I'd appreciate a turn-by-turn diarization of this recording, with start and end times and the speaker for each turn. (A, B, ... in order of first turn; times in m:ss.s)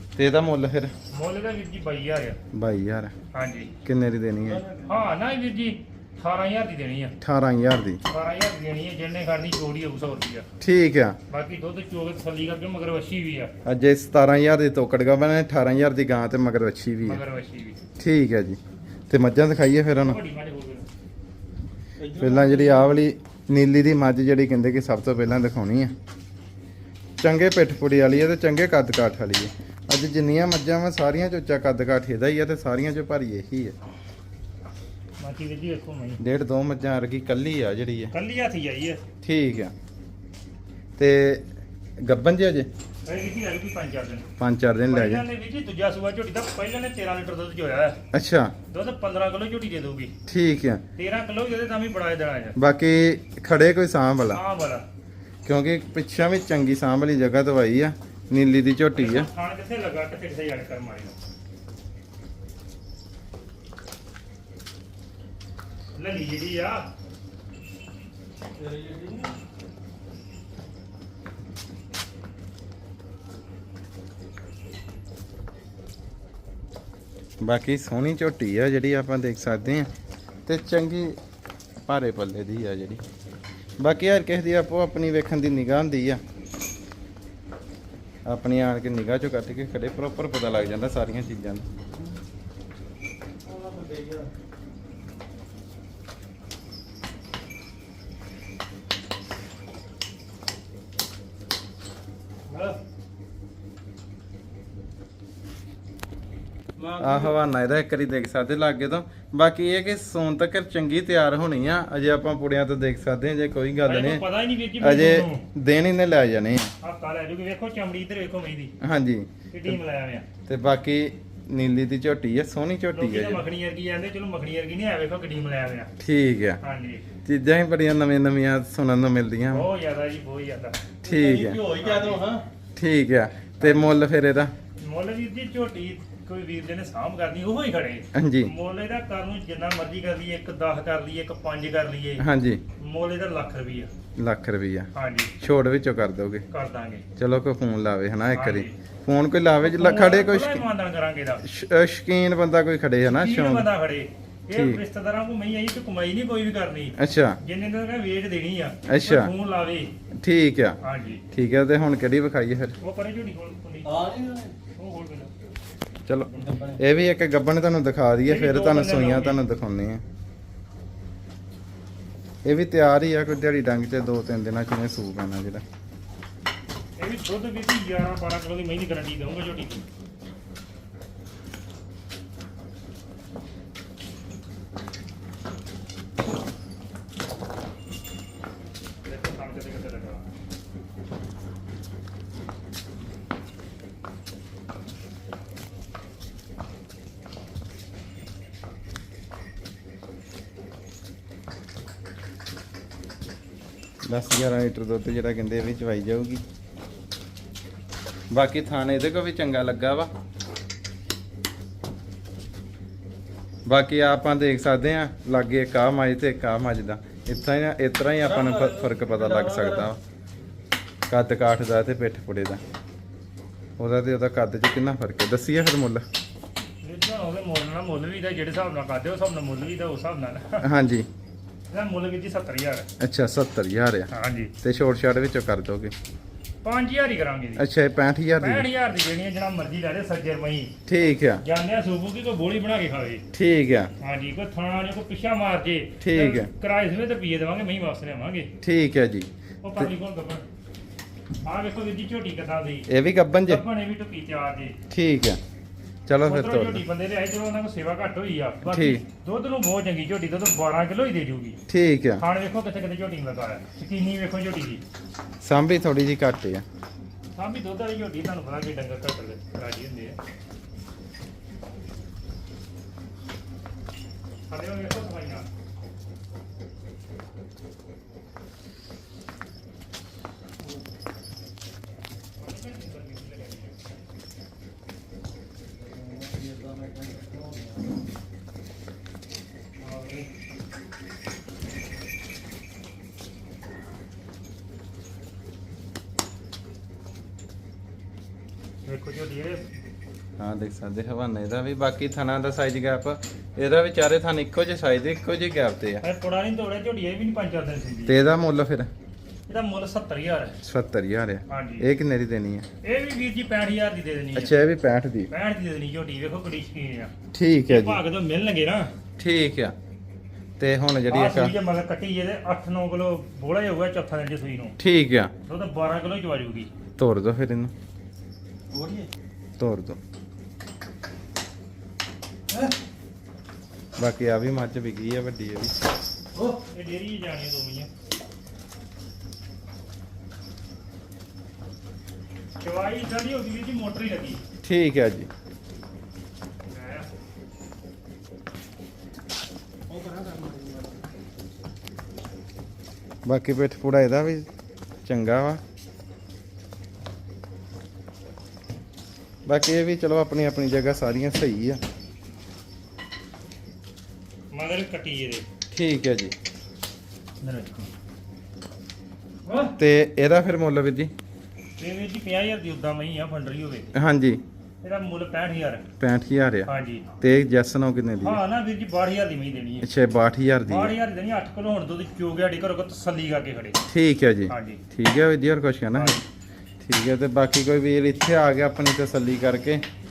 0:00.2-0:00.9 A
0:01.1-0:02.4 B
0:02.5-0:03.1 A
0:03.3-0:03.7 B
0:03.8-0:04.6 A
0:04.6-0:05.0 C
0:04.8-0:07.2 B
0:07.2-0:08.0 A
0:08.0-0:10.4 B
0:10.6-0:11.2 A
0:11.3-0:13.5 B
0:13.6-0:17.2 A
0:17.0-0:17.8 B
0:18.0-0:20.2 A
0:20.0-0:20.9 B
0:22.0-0:22.9 C
0:22.2-0:25.9 A
0:27.2-0:33.8 A
0:35.2-0:36.2 B
0:36.2-0:38.1 A
0:38.1-0:39.0 B
0:39.2-0:39.7 A
0:41.0-0:41.5 A
0:42.0-0:42.7 A
0:43.0-0:44.3 B
0:44.4-0:45.2 A
0:44.9-0:48.0 B
0:48.1-0:48.5 A
0:48.7-0:50.1 B
0:50.3-0:50.8 A
0:51.0-0:52.6 B
0:52.6-0:54.4 A
0:54.3-0:54.8 B
0:55.4-0:59.3 A
0:59.0-1:01.1 B
1:06.0-1:06.9 B
1:08.6-1:09.3 C
1:17.4-1:19.9 A
1:20.4-1:21.2 A
1:21.8-1:23.0 A
1:23.8-1:26.2 A
1:28.2-1:31.7 A
1:33.4-1:34.3 C
1:42.5-1:42.8 B
1:46.8-1:47.4 B
1:47.0-1:54.2 A
1:53.8-1:55.4 B
1:54.8-1:56.7 A
1:56.8-1:58.7 B
1:58.8-1:59.3 A
1:59.5-2:00.3 B
2:00.5-2:03.4 A
2:02.9-2:05.9 B
2:06.0-2:06.6 A
2:06.6-2:07.0 B
2:07.2-2:09.7 A
2:09.5-2:12.2 B
2:11.0-2:11.7 A
2:11.1-2:12.4 C
2:12.8-2:14.5 A
2:13.6-2:14.0 B
2:14.8-2:22.2 B
2:18.1-2:18.5 A
2:22.2-2:22.6 A
2:22.8-2:23.9 B
2:24.2-2:24.9 A
2:24.9-2:25.3 B
2:25.4-2:26.4 A
2:26.5-2:27.0 B
2:27.2-2:30.6 A
2:28.3-2:28.7 B
2:29.6-2:31.4 B
2:31.4-2:33.7 A
2:33.0-2:39.9 B
2:34.5-2:34.8 A
2:37.0-2:37.4 A
2:38.9-2:39.3 A
2:40.2-2:40.8 A
2:40.8-2:41.2 B
2:41.3-2:42.8 A
2:42.8-2:44.1 B
2:43.8-2:44.6 C
2:44.8-2:45.3 B
2:46.1-2:50.0 A
2:46.4-2:46.8 C
2:48.2-2:49.4 B
2:52.4-2:55.6 A
2:57.0-2:59.8 B
3:09.0-3:10.3 B
3:24.0-3:26.4 A
3:28.3-3:30.1 A
3:33.6-3:40.0 A
3:38.2-3:39.9 C
3:41.1-3:42.6 A
3:43.8-3:46.0 A
3:46.8-3:50.7 B
3:50.6-3:51.1 A
3:51.7-3:52.9 B
3:53.0-3:54.1 A
3:54.1-3:54.5 B
3:54.6-3:55.9 A
3:56.6-3:57.6 B
3:57.6-3:58.6 A
3:58.4-4:00.7 B
4:00.9-4:01.4 A
4:01.4-4:03.2 B
4:03.3-4:03.9 A
4:04.0-4:08.5 B
4:06.0-4:06.5 A
4:08.6-4:09.9 A
4:09.6-4:10.4 B
4:11.4-4:12.9 B
4:12.9-4:13.6 A
4:13.4-4:14.8 B
4:14.9-4:15.4 A
4:16.1-4:16.8 A
4:16.2-4:21.6 B
4:18.6-4:19.0 A
4:21.7-4:22.2 A
4:22.2-4:24.8 B
4:25.4-4:26.6 A
4:27.4-4:30.2 B
4:34.5-4:35.4 B
4:42.4-4:43.9 B
4:45.8-4:47.8 C
4:49.8-4:50.2 C
4:58.8-4:59.6 B
5:00.4-5:06.0 A
5:06.0-5:08.2 B
5:08.0-5:08.9 A
5:09.5-5:10.6 B
5:10.6-5:12.6 A
5:11.5-5:11.9 B
5:12.8-5:14.5 B
5:14.3-5:15.3 A
5:15.3-5:17.1 B
5:17.3-5:18.0 A
5:17.7-5:18.9 B
5:19.2-5:19.7 A
5:20.6-5:21.5 A
5:21.1-5:24.8 B
5:24.8-5:25.3 A
5:25.4-5:26.7 B
5:27.0-5:27.7 A
5:28.7-5:29.1 C
5:29.6-5:30.0 A
5:34.0-5:35.7 A
5:36.4-5:37.9 B
5:42.6-5:44.4 B
5:44.6-5:45.3 A
5:46.7-5:47.1 B
5:49.9-5:50.9 C
5:53.2-5:54.5 A
5:55.0-5:55.6 A
5:59.4-6:01.8 A
6:04.5-6:05.4 B
6:05.7-6:06.3 A
6:07.4-6:07.9 B
6:09.4-6:09.8 B
6:09.8-6:11.1 A
6:11.8-6:13.9 B
6:13.9-6:14.4 A
6:14.8-6:15.9 B
6:16.0-6:16.7 A
6:16.7-6:17.1 B
6:17.2-6:18.4 A
6:18.2-6:19.9 B
6:19.8-6:21.0 A
6:20.7-6:23.8 B
6:23.9-6:26.2 A
6:24.5-6:24.8 B
6:25.9-6:26.2 B
6:26.8-6:29.8 A